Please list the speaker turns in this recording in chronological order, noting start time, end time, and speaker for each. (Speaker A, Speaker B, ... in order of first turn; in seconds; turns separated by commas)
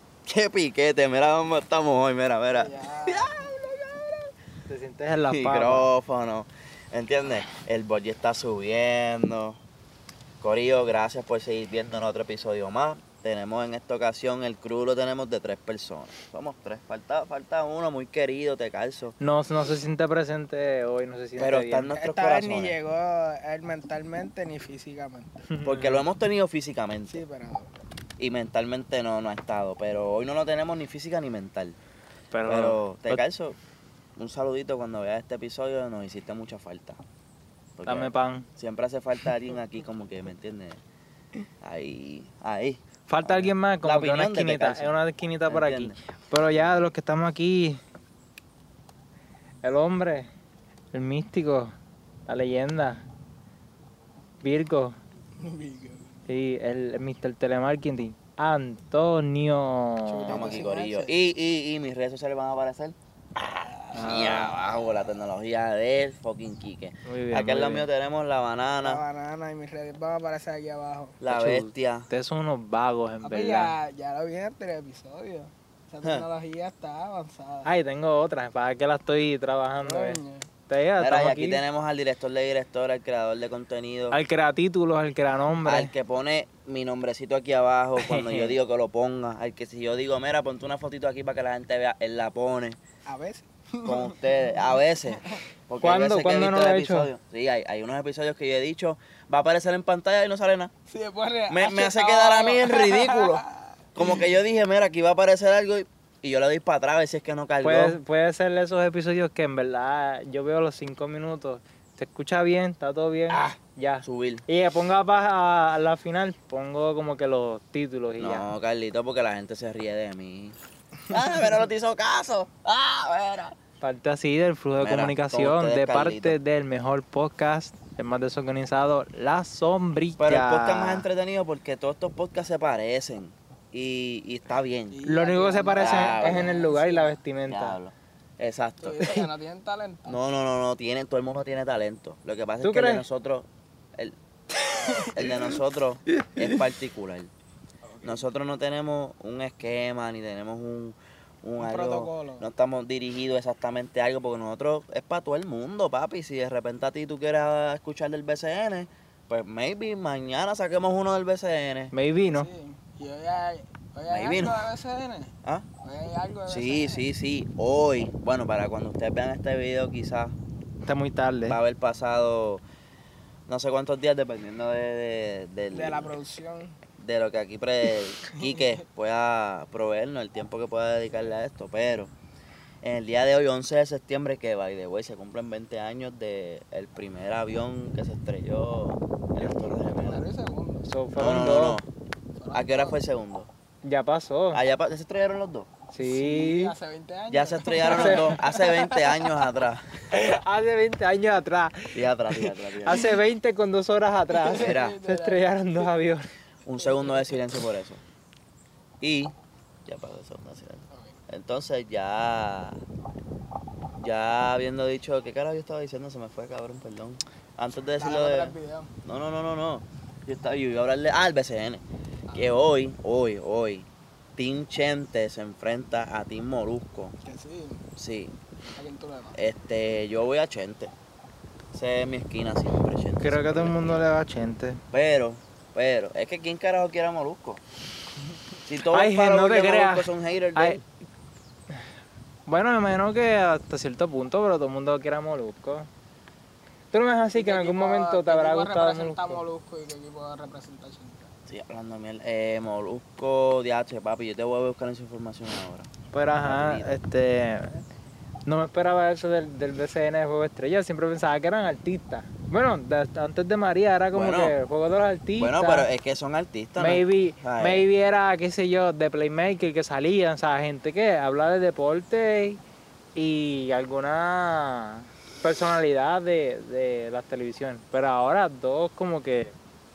Speaker A: 0.2-4.3, Speaker B: 2.5-3.3, Speaker C: 4.7-5.9, Speaker A: 5.3-9.6, Speaker A: 10.4-19.1, Speaker C: 19.2-21.9, Speaker A: 21.4-22.8, Speaker B: 21.9-25.4, Speaker C: 25.5-26.0, Speaker A: 25.6-27.2, Speaker B: 27.1-27.8, Speaker A: 28.2-31.8, Speaker C: 32.3-33.2, Speaker A: 32.5-33.6, Speaker A: 34.2-37.0, Speaker A: 37.8-40.8, Speaker C: 37.9-38.5, Speaker A: 41.6-44.9, Speaker C: 43.1-47.8, Speaker A: 45.5-46.0, Speaker C: 49.6-50.3, Speaker C: 50.9-51.7, Speaker C: 52.3-53.0, Speaker C: 54.4-55.0, Speaker B: 55.4-56.1, Speaker C: 56.3-60.5, Speaker B: 60.0-61.1, Speaker A: 60.3-69.0, Speaker C: 63.9-64.5, Speaker C: 67.0-67.9, Speaker B: 68.8-71.2, Speaker A: 71.2-72.1, Speaker C: 71.3-73.7, Speaker B: 73.2-77.7, Speaker C: 77.6-81.6, Speaker B: 79.8-80.5, Speaker A: 81.0-84.2, Speaker C: 84.1-85.9, Speaker A: 85.6-92.8, Speaker C: 88.0-88.6, Speaker B: 93.0-95.4, Speaker A: 93.8-100.7, Speaker C: 95.8-97.1, Speaker B: 100.9-104.2, Speaker A: 101.5-103.4, Speaker A: 103.9-108.0, Speaker C: 107.6-118.5, Speaker A: 113.3-114.4, Speaker A: 118.2-120.5, Speaker A: 121.1-123.5, Speaker C: 123.8-131.1, Speaker A: 124.8-126.3, Speaker A: 130.2-135.0, Speaker B: 134.9-137.2, Speaker C: 135.1-137.8, Speaker A: 135.8-136.6, Speaker A: 137.5-139.1, Speaker B: 138.8-140.2, Speaker A: 140.1-144.2, Speaker C: 142.6-143.0, Speaker B: 144.8-145.1, Speaker A: 144.9-147.3, Speaker B: 147.8-148.2, Speaker A: 148.0-161.9, Speaker B: 151.6-152.5, Speaker C: 161.9-162.5, Speaker B: 162.3-167.0, Speaker A: 164.1-164.6, Speaker A: 166.5-170.3, Speaker C: 170.8-171.6, Speaker A: 171.4-172.6, Speaker A: 173.5-176.1, Speaker B: 175.7-176.8, Speaker A: 177.0-182.1, Speaker B: 178.4-178.8, Speaker A: 182.8-190.2, Speaker B: 189.6-190.8, Speaker C: 190.8-191.8, Speaker A: 191.2-191.8, Speaker B: 192.4-193.0, Speaker A: 192.5-193.5, Speaker C: 193.8-194.6, Speaker A: 194.5-195.7, Speaker C: 195.9-196.7, Speaker B: 196.0-199.1, Speaker A: 197.3-200.0, Speaker C: 197.8-198.8, Speaker C: 200.1-206.3, Speaker A: 201.9-203.0, Speaker B: 204.3-205.8, Speaker A: 204.5-204.9, Speaker A: 206.7-208.0, Speaker B: 206.8-207.1, Speaker A: 209.0-209.3, Speaker A: 209.8-212.8, Speaker A: 214.0-221.8, Speaker B: 218.0-218.9, Speaker B: 222.3-222.6, Speaker A: 222.3-227.1, Speaker B: 227.2-227.8, Speaker A: 228.0-228.4, Speaker B: 228.7-229.4, Speaker A: 229.3-230.9, Speaker A: 231.7-234.1, Speaker C: 233.2-234.8, Speaker A: 234.9-237.6, Speaker A: 238.7-240.8, Speaker C: 238.9-240.8, Speaker C: 242.5-245.9, Speaker C: 246.9-249.4, Speaker B: 247.3-251.3, Speaker A: 251.5-255.9, Speaker C: 256.1-257.8, Speaker A: 256.4-257.0, Speaker C: 258.4-265.9, Speaker A: 264.1-264.5, Speaker A: 265.4-267.9, Speaker C: 266.8-272.6, Speaker C: 273.1-279.5